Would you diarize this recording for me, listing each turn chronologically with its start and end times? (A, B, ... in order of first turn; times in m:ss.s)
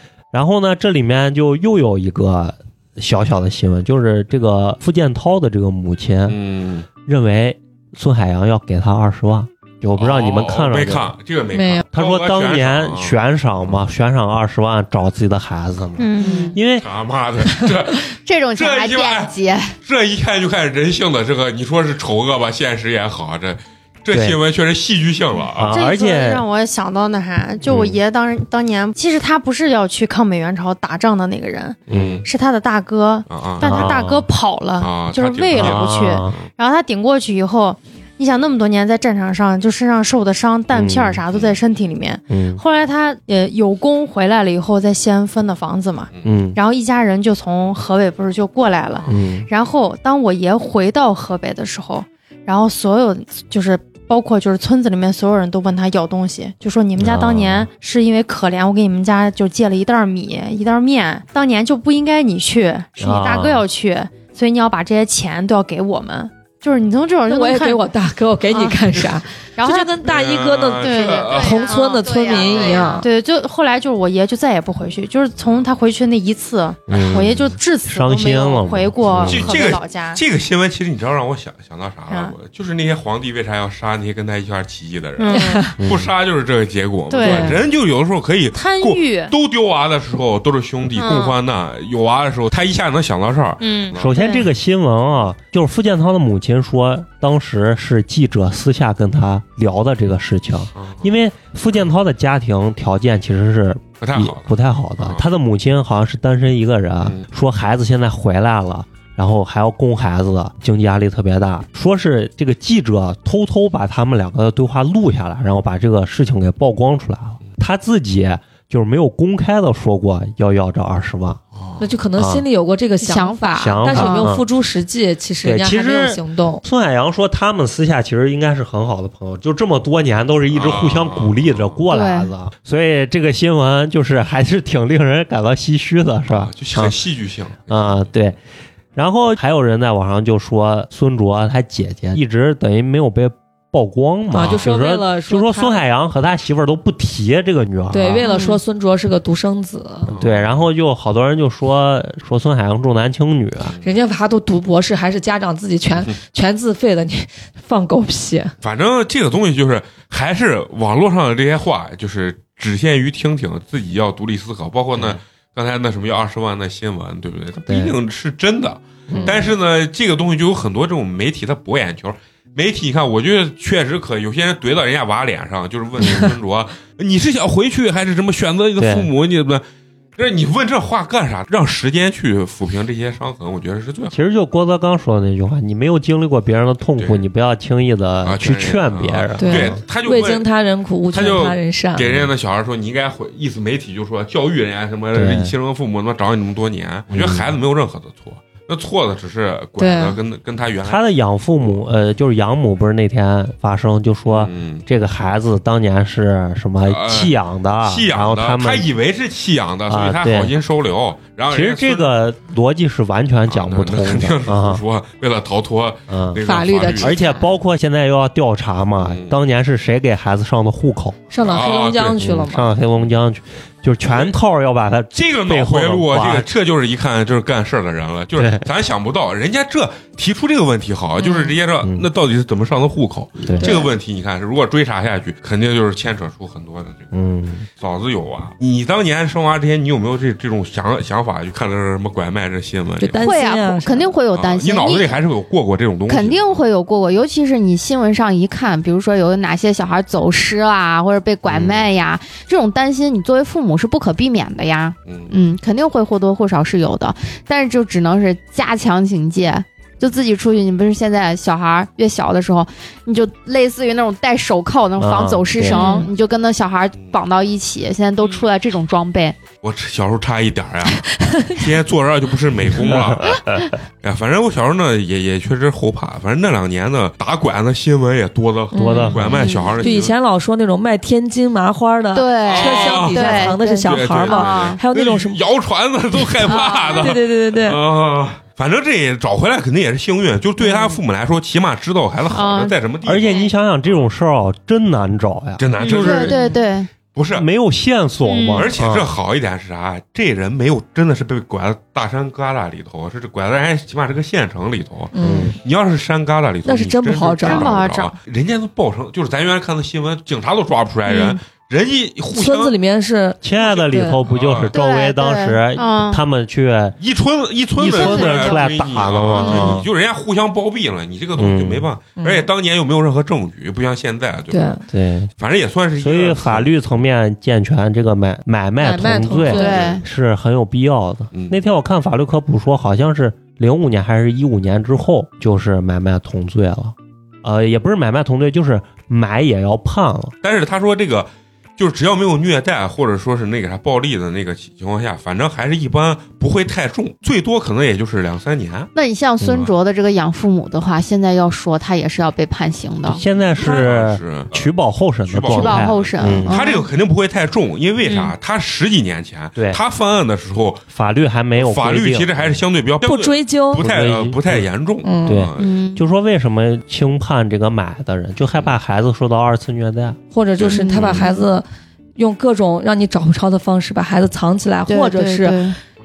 0:00.3-0:06.4 A
0:06.3-0:06.9 B
0:07.0-0:11.1 A
0:10.0-0:13.8 B
0:11.5-0:11.9 C
0:11.9-0:16.8 A
0:16.0-0:16.6 D
0:16.2-0:16.6 E
0:16.8-0:25.8 B
0:18.2-0:19.7 E
0:24.1-0:24.4 A
0:25.6-0:26.4 A
0:25.7-1:07.9 D
0:31.9-0:32.2 A
0:31.9-0:32.3 B
0:33.3-0:34.0 B
0:33.6-0:34.3 A
0:34.8-0:36.5 B
0:35.6-0:36.4 A
0:40.7-0:41.2 A
0:41.3-0:41.6 B
0:42.3-0:42.6 A
0:46.2-0:46.6 A
0:49.1-0:49.5 A
0:57.0-0:57.7 A
1:03.0-1:03.6 A
1:07.3-1:13.1 C
1:08.5-1:09.0 D
1:09.6-1:10.0 D
1:10.0-1:11.7 B
1:10.8-1:20.2 D
1:11.1-1:13.0 E
1:16.9-1:19.6 A
1:19.2-1:34.1 B
1:22.1-1:22.4 D
1:25.2-1:25.7 D
1:25.3-1:25.8 C
1:25.8-1:26.1 A
1:27.1-1:27.6 D
1:27.2-1:27.6 C
1:27.3-1:27.6 A
1:28.5-1:29.3 D
1:31.0-1:31.4 D
1:33.6-1:34.5 D
1:34.0-2:01.4 A
1:40.8-1:41.1 B
1:44.0-1:45.2 B
2:01.6-2:01.9 B
2:01.8-2:06.6 C
2:02.2-2:02.4 A
2:03.0-2:04.3 E
2:03.6-2:04.5 A
2:05.4-2:17.0 A
2:10.5-2:11.9 B
2:11.9-2:12.3 E
2:16.3-2:18.1 B
2:17.7-2:18.4 A
2:19.0-2:28.2 A
2:24.3-2:25.8 C
2:24.4-2:24.6 B
2:27.9-2:30.1 C
2:28.2-2:28.6 E
2:30.1-2:30.6 B
2:30.1-2:33.7 A
2:33.6-2:34.0 B
2:33.8-2:38.5 C
2:38.6-2:59.6 B
2:47.7-2:48.0 A
2:49.1-2:49.5 A
2:49.1-2:49.4 C
2:56.0-2:56.3 A
2:58.8-2:59.1 A
3:00.2-3:04.1 B
3:04.1-3:09.8 A
3:07.0-3:07.2 B
3:08.2-3:10.5 B
3:09.4-3:12.1 C
3:11.1-3:21.0 B
3:15.1-3:15.5 A
3:17.1-3:17.5 A
3:19.8-3:20.2 C
3:20.8-3:28.9 A
3:24.3-3:24.8 B
3:26.8-3:32.1 B
3:29.9-3:30.5 A
3:31.5-3:34.8 A
3:33.5-3:37.2 B
3:36.1-3:36.4 A
3:36.4-3:37.4 C
3:37.0-3:41.2 A
3:39.0-3:39.4 B
3:41.3-3:42.7 C
3:41.4-3:42.2 B
3:42.2-3:46.5 A
3:44.1-3:44.3 B
3:45.1-3:57.1 B
3:48.4-3:48.7 A
3:51.8-3:52.1 A
3:53.4-3:53.8 A
3:53.6-3:53.9 E
3:57.1-3:57.7 A
3:57.8-4:03.3 B
4:03.0-4:04.2 C
4:03.2-4:05.2 E
4:04.3-4:06.6 B
4:06.1-4:29.4 E
4:11.5-4:11.9 B
4:15.0-4:15.4 B
4:25.0-4:25.9 A
4:25.7-4:26.1 D
4:28.2-4:28.5 D
4:29.6-4:33.5 B
4:30.9-4:31.6 C
4:32.9-4:33.4 A
4:34.0-4:40.1 B
4:38.7-4:45.4 C
4:38.7-4:39.5 A
4:39.2-4:39.9 E
4:42.1-4:44.8 E
4:42.5-4:54.1 B
4:46.2-4:47.8 C
4:46.4-4:47.0 E
4:50.6-4:51.0 E
4:52.3-4:52.7 D
4:53.0-4:56.4 A
4:55.6-4:57.5 B
4:55.8-4:56.6 D
4:55.9-4:56.9 E
4:57.4-4:59.1 A
4:58.2-4:58.7 D
4:58.5-5:12.8 B
5:05.1-5:05.6 C
5:05.2-5:05.6 A
5:06.7-5:07.8 C
5:07.4-5:08.1 D
5:11.1-5:11.4 E
5:12.3-5:14.2 C
5:13.4-5:17.0 A
5:14.3-5:14.7 B
5:14.7-5:16.2 E
5:15.8-5:16.0 D
5:17.0-5:24.8 B
5:17.8-5:19.9 A
5:17.9-5:18.6 D
5:18.1-5:18.4 E
5:19.4-5:19.8 C
5:21.4-5:21.9 A
5:22.2-5:22.5 C
5:24.5-5:24.8 C
5:24.9-5:25.3 A
5:25.4-5:26.7 B
5:26.0-5:40.3 A
5:28.8-5:29.8 C
5:29.5-5:30.0 E
5:29.6-5:30.0 B
5:31.3-5:31.6 B
5:40.4-5:48.9 B
5:48.9-5:53.2 E
5:49.4-5:49.7 A
5:53.1-5:56.6 A
5:53.6-5:54.7 B
5:53.6-5:53.9 C
5:55.3-6:00.8 B
5:55.5-5:56.9 E
5:58.1-5:58.3 D
6:00.9-6:02.6 A
6:01.5-6:05.8 B
6:03.0-6:03.8 C
6:03.8-6:04.7 A
6:05.0-6:05.5 C
6:05.3-6:10.2 A
6:05.6-6:06.0 E
6:10.3-6:15.6 C
6:10.6-6:11.3 B
6:10.6-6:11.4 E
6:14.9-6:15.8 E